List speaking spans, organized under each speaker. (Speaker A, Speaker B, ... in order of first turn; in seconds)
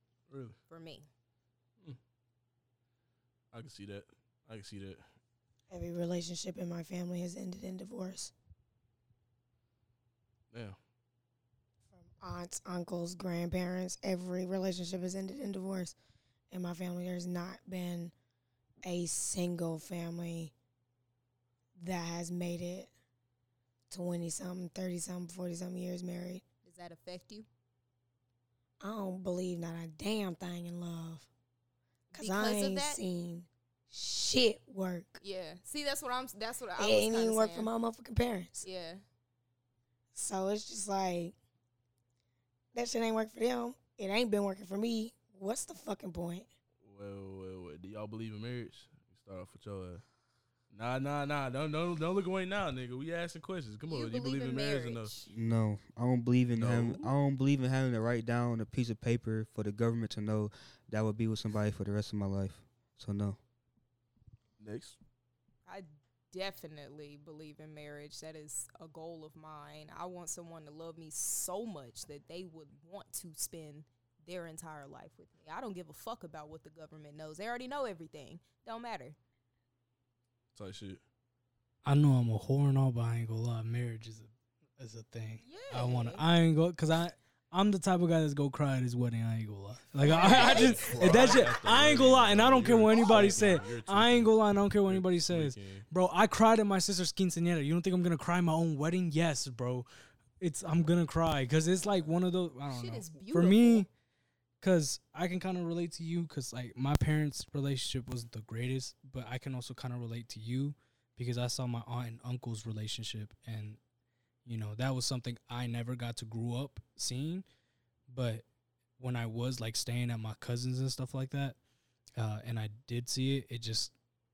Speaker A: 0.3-0.6, 3.5-5.0, 10.5-10.8, 46.8-50.0, 50.7-55.1, 56.6-57.1, 64.6-65.0, 80.5-81.0, 90.1-95.8
Speaker B: 0.7-1.1, 26.6-27.4, 32.1-33.0, 35.2-37.7, 38.6-39.0, 53.9-55.3, 65.7-79.2, 85.4-86.2, 90.0-91.5, 92.9-93.7, 102.7-103.9
Speaker C: 5.7-8.3, 11.9-15.9, 16.5-18.1, 18.8-20.5, 21.8-22.9, 23.9-26.4, 28.8-31.3, 32.1-35.2, 36.8-38.6, 40.1-41.3, 42.7-46.5
Speaker D: 55.3-63.4
Speaker E: 81.8-99.9, 100.4-103.9, 104.6-113.8, 114.4-117.5, 118.1-118.4, 119.0-121.6, 122.2-123.9